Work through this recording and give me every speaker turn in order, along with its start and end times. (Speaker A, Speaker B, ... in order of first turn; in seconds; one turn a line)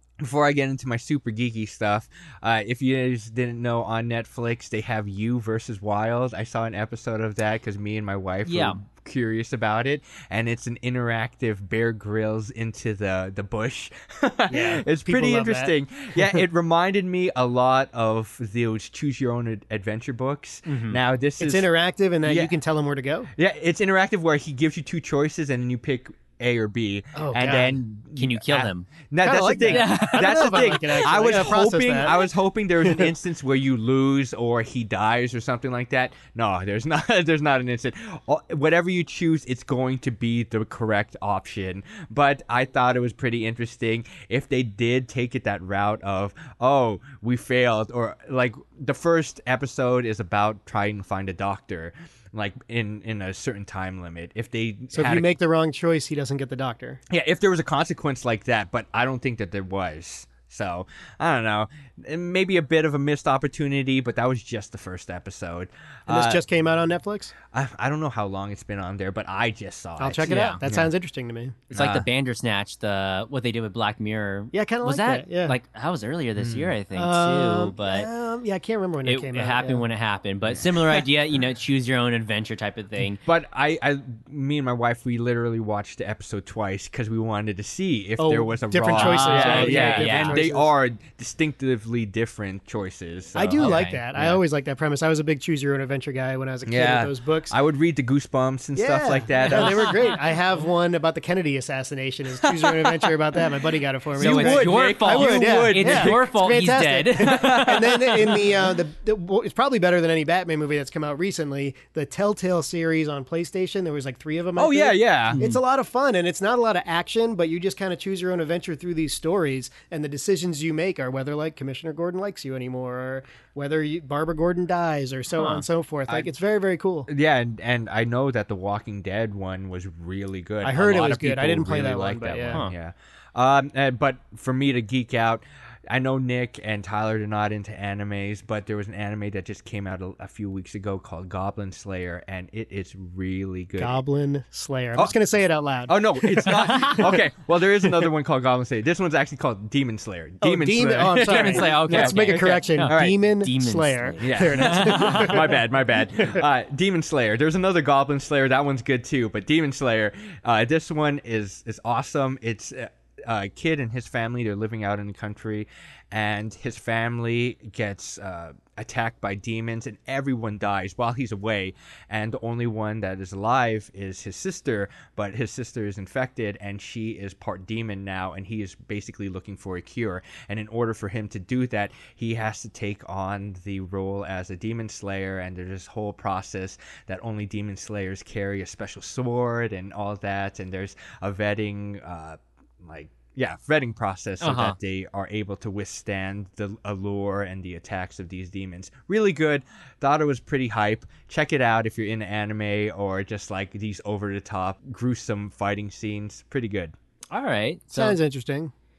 Speaker A: 0.2-21.7
Speaker B: 8.4-8.8
Speaker C: 14.5-16.4
Speaker C: 20.9-23.3
Speaker A: 22.2-22.5
Speaker A: 23.4-55.3
Speaker C: 27.1-27.8
Speaker B: 28.1-28.9
Speaker C: 29.2-32.3
Speaker B: 29.6-31.1
Speaker C: 54.9-57.0
Speaker A: 57.1-66.4
Speaker C: 66.1-67.3
Speaker A: 67.5-70.9
Speaker C: 70.0-71.6
Speaker B: 70.2-70.6
Speaker B: 71.7-78.1
Speaker A: 71.7-72.0
Speaker C: 74.5-75.5
Speaker A: 76.4-76.7
Speaker C: 76.9-79.8
Speaker B: 79.0-83.2
Speaker A: 83.2-94.4
Speaker C: 88.2-90.7
Speaker B: 88.9-90.4
Speaker C: 93.3-97.5
Speaker B: 93.4-94.0
Speaker A: 96.6-100.0
Speaker C: 98.8-127.1
Speaker B: 99.5-100.1
Speaker A: 104.2-106.3
Speaker B: 104.2-108.1
Speaker A: 107.2-108.7
Speaker A: 114.5-115.4
Speaker B: 115.3-115.6
Speaker B: 125.3-125.6
Speaker A: 127.1-144.0
Speaker C: 130.6-132.6
Speaker C: 143.8-147.2
Speaker A: 145.9-153.2
Speaker C: 150.4-155.6
Speaker B: 151.2-155.4
Speaker A: 154.2-206.9
Speaker C: 156.1-156.4
Speaker B: 194.4-194.8
Speaker B: 207.3-208.2
Speaker C: 207.9-208.7